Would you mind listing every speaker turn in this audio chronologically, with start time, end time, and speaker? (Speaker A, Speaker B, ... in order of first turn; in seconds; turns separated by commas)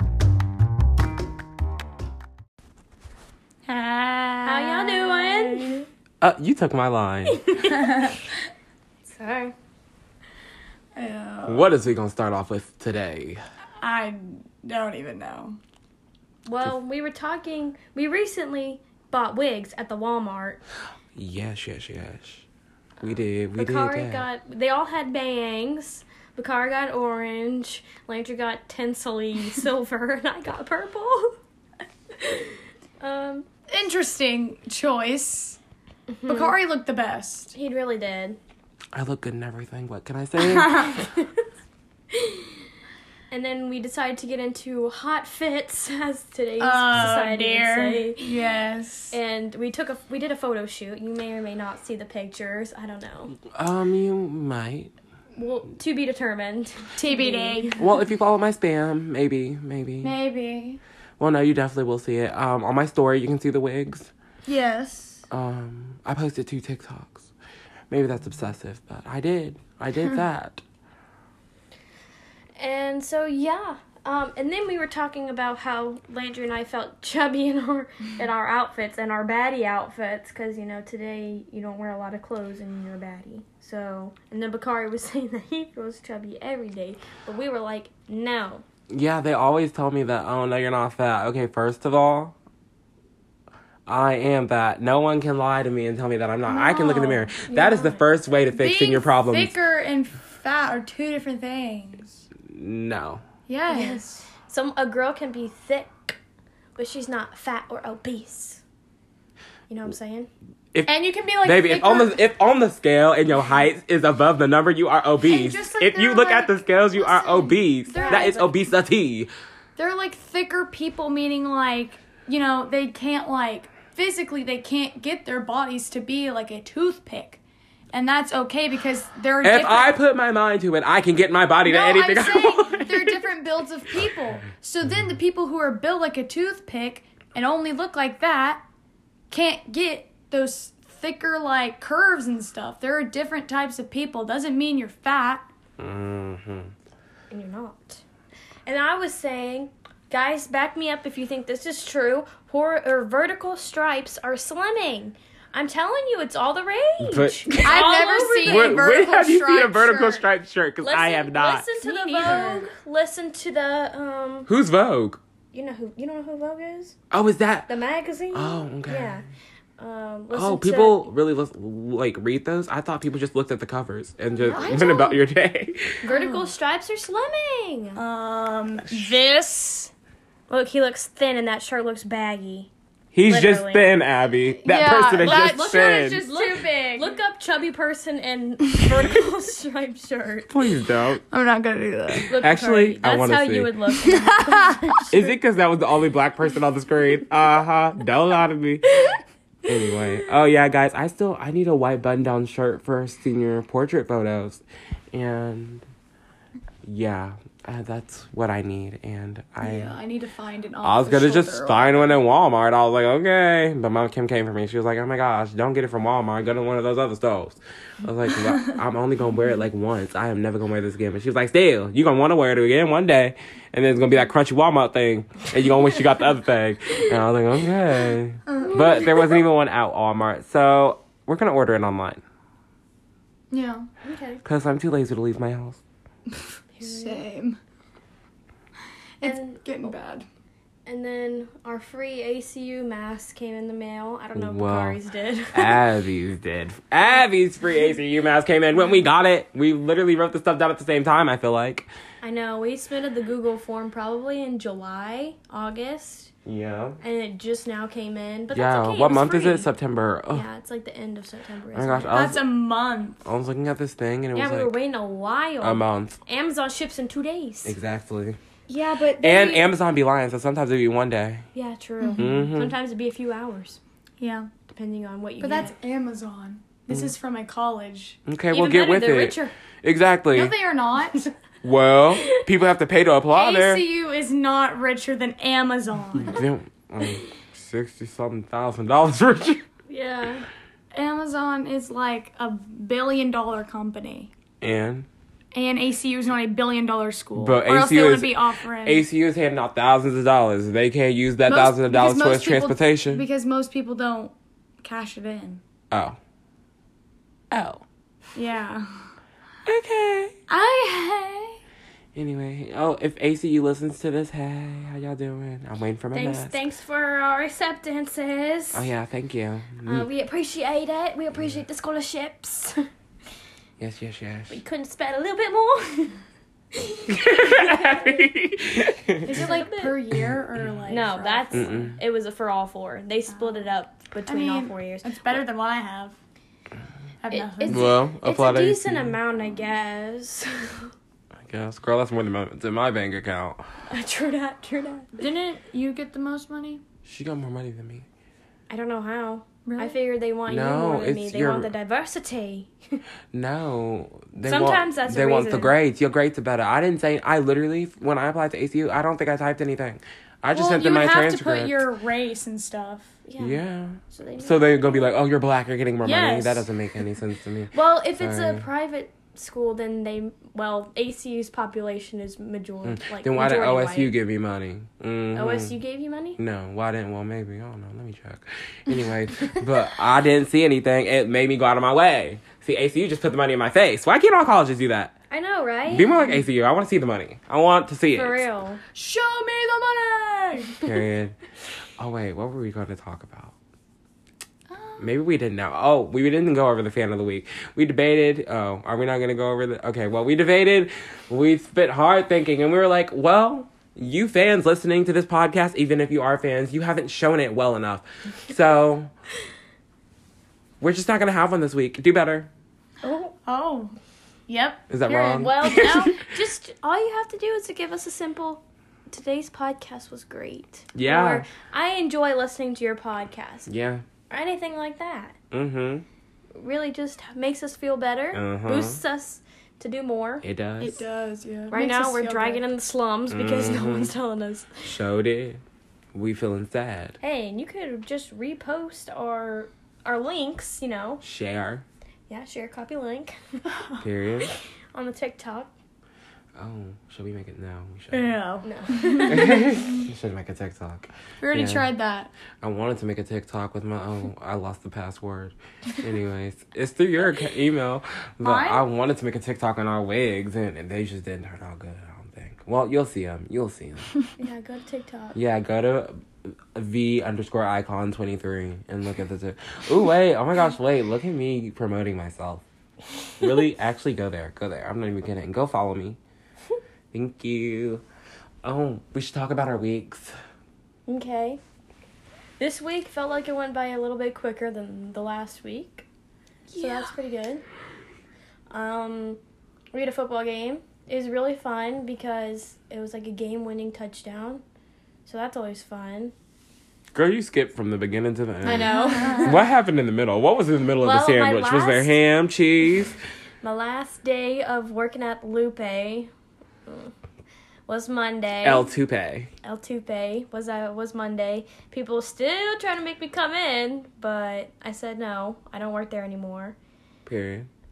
Speaker A: 3.6-5.8, Speaker B: 4.4-5.8, Speaker C: 6.2-7.4, Speaker B: 7.3-8.2, Speaker A: 7.7-8.2, Speaker B: 9.1-9.5, Speaker A: 10.9-11.7, Speaker C: 11.4-13.4, Speaker A: 13.8-15.6, Speaker B: 16.4-20.6, Speaker C: 21.1-22.4, Speaker C: 23.0-24.2, Speaker B: 23.5-31.4, Speaker B: 32.1-33.5, Speaker A: 33.7-35.6, Speaker B: 36.1-36.5, Speaker A: 36.2-37.5, Speaker B: 37.5-38.4, Speaker C: 38.9-41.0, Speaker A: 40.4-40.9, Speaker B: 40.9-41.4, Speaker B: 42.1-42.5, Speaker B: 43.3-48.3, Speaker A: 46.6-49.2, Speaker B: 49.1-53.4, Speaker C: 53.5-54.9, Speaker B: 55.3-57.8, Speaker A: 57.0-57.9, Speaker C: 57.8-60.2, Speaker A: 60.0-60.8, Speaker C: 61.2-64.1, Speaker A: 64.5-65.2, Speaker C: 65.3-67.3, Speaker C: 67.9-70.6, Speaker B: 72.6-88.6, Speaker C: 88.9-92.3, Speaker C: 93.9-99.5, Speaker A: 96.5-97.3, Speaker B: 97.5-98.0, Speaker A: 98.5-102.2, Speaker C: 102.4-103.2, Speaker A: 103.5-104.2, Speaker B: 103.7-106.2, Speaker B: 106.8-108.6, Speaker B: 109.7-110.3, Speaker C: 110.7-119.3, Speaker A: 110.8-112.2, Speaker A: 115.2-118.5, Speaker B: 117.9-118.5, Speaker A: 119.8-127.4, Speaker A: 127.9-129.9, Speaker C: 129.4-133.2, Speaker A: 131.6-138.6, Speaker A: 139.3-145.5, Speaker C: 145.8-146.7, Speaker B: 147.3-148.0, Speaker B: 148.7-158.8, Speaker C: 157.0-157.8, Speaker A: 157.6-160.2, Speaker C: 158.4-161.7, Speaker B: 160.8-164.5, Speaker A: 161.8-162.7, Speaker C: 164.5-165.2, Speaker B: 165.5-166.9, Speaker C: 167.1-167.7, Speaker B: 167.7-169.2, Speaker C: 168.3-169.2, Speaker B: 169.8-171.1, Speaker C: 170.3-176.0, Speaker B: 174.4-174.8, Speaker A: 174.4-175.2, Speaker B: 176.0-178.0, Speaker A: 176.0-176.5, Speaker A: 177.9-179.9, Speaker B: 180.5-182.7, Speaker C: 183.1-186.2, Speaker B: 183.2-183.9, Speaker A: 184.6-187.1, Speaker B: 185.2-190.5, Speaker A: 188.8-189.1, Speaker C: 190.5-191.2, Speaker A: 191.3-192.3, Speaker B: 192.3-195.2, Speaker C: 192.3-193.7, Speaker A: 193.9-195.1, Speaker C: 195.1-199.0, Speaker C: 199.7-205.8, Speaker C: 206.8-210.0, Speaker A: 209.6-212.2, Speaker C: 210.8-232.2, Speaker A: 228.5-229.0, Speaker B: 228.7-229.2, Speaker A: 233.5-233.9, Speaker B: 234.0-234.4, Speaker C: 234.4-235.8, Speaker B: 236.7-237.2, Speaker A: 236.8-237.6, Speaker A: 239.2-240.2, Speaker B: 239.2-239.9, Speaker B: 240.8-245.8, Speaker C: 244.3-245.0, Speaker C: 245.5-251.9, Speaker B: 252.2-256.3, Speaker C: 256.4-257.0, Speaker B: 257.0-259.7, Speaker C: 258.5-260.4, Speaker B: 260.3-262.2, Speaker C: 261.7-262.4, Speaker A: 262.1-263.2, Speaker C: 263.2-264.7, Speaker B: 264.3-267.8, Speaker C: 265.6-266.2, Speaker C: 267.6-268.4, Speaker A: 268.7-269.6, Speaker C: 269.2-271.4, Speaker B: 271.5-273.8, Speaker A: 272.0-272.3, Speaker C: 272.2-272.8, Speaker A: 274.2-274.5, Speaker B: 274.7-275.7, Speaker A: 275.4-278.2, Speaker C: 278.2-280.5, Speaker B: 278.5-279.5, Speaker A: 280.3-281.3, Speaker C: 281.6-283.8, Speaker A: 283.3-286.4, Speaker C: 286.2-289.6, Speaker B: 289.9-290.4, Speaker A: 290.9-294.3, Speaker C: 294.6-295.1, Speaker A: 295.5-299.0, Speaker C: 297.4-303.2, Speaker A: 301.4-305.6, Speaker C: 305.9-306.2, Speaker C: 307.5-307.8, Speaker A: 308.3-309.1, Speaker C: 309.6-310.4, Speaker A: 310.5-311.6, Speaker C: 312.1-316.6, Speaker B: 316.1-318.9, Speaker C: 318.7-320.1, Speaker B: 319.8-322.9, Speaker C: 323.8-324.6, Speaker B: 324.5-326.1, Speaker B: 326.7-328.3, Speaker C: 327.1-329.6, Speaker A: 329.2-331.8, Speaker B: 329.3-330.0, Speaker B: 330.9-335.4, Speaker C: 331.5-331.9, Speaker A: 333.3-333.7, Speaker A: 334.3-336.2, Speaker A: 337.2-337.9, Speaker B: 337.3-340.9, Speaker C: 337.7-339.2, Speaker C: 341.4-343.6, Speaker B: 343.9-345.2, Speaker A: 345.2-346.8, Speaker C: 347.0-348.1, Speaker B: 348.7-353.0, Speaker A: 349.6-349.9, Speaker C: 350.5-351.7, Speaker C: 353.3-361.9, Speaker B: 354.4-355.7, Speaker A: 360.5-363.2, Speaker B: 363.2-365.1, Speaker C: 363.4-368.6, Speaker A: 366.0-366.7, Speaker B: 367.7-374.1, Speaker C: 372.8-375.7, Speaker B: 375.3-376.4, Speaker C: 376.4-385.1, Speaker B: 385.3-386.1, Speaker C: 385.9-388.4, Speaker B: 388.1-388.8, Speaker A: 388.9-390.9, Speaker C: 390.8-391.4, Speaker C: 392.0-393.5, Speaker A: 394.7-395.1, Speaker C: 395.0-409.1, Speaker C: 410.8-412.5, Speaker B: 413.0-413.3, Speaker A: 413.4-413.9, Speaker A: 414.5-415.8, Speaker C: 414.9-416.2, Speaker B: 415.1-423.7, Speaker C: 420.9-421.4, Speaker C: 423.7-424.0, Speaker B: 424.3-425.4, Speaker C: 425.5-426.0, Speaker B: 426.5-430.4, Speaker C: 428.3-429.0, Speaker C: 430.4-431.0, Speaker A: 430.8-432.6, Speaker B: 431.7-435.0, Speaker C: 433.3-434.1, Speaker C: 434.8-435.6, Speaker C: 436.1-437.2, Speaker B: 437.2-441.2, Speaker C: 441.2-441.8, Speaker B: 442.3-443.7, Speaker C: 444.0-444.5, Speaker B: 444.5-445.7, Speaker C: 446.6-448.4, Speaker A: 448.1-450.1, Speaker B: 448.6-449.7, Speaker C: 449.2-451.9, Speaker A: 451.4-452.3, Speaker C: 452.6-464.1, Speaker A: 458.4-458.9, Speaker B: 464.4-465.4, Speaker C: 465.3-472.6, Speaker C: 473.4-476.2, Speaker C: 477.1-478.0, Speaker C: 478.6-480.3, Speaker B: 481.1-481.6, Speaker B: 482.6-486.1, Speaker A: 486.7-487.1, Speaker B: 486.8-487.6, Speaker B: 488.7-489.4, Speaker B: 489.9-494.6, Speaker B: 495.2-496.3, Speaker C: 497.1-503.2, Speaker B: 498.6-499.6, Speaker A: 498.7-499.5, Speaker B: 501.0-502.1, Speaker B: 503.6-506.3, Speaker B: 506.9-507.1, Speaker B: 507.9-508.9, Speaker C: 508.6-509.5, Speaker B: 509.6-516.8, Speaker C: 517.2-517.7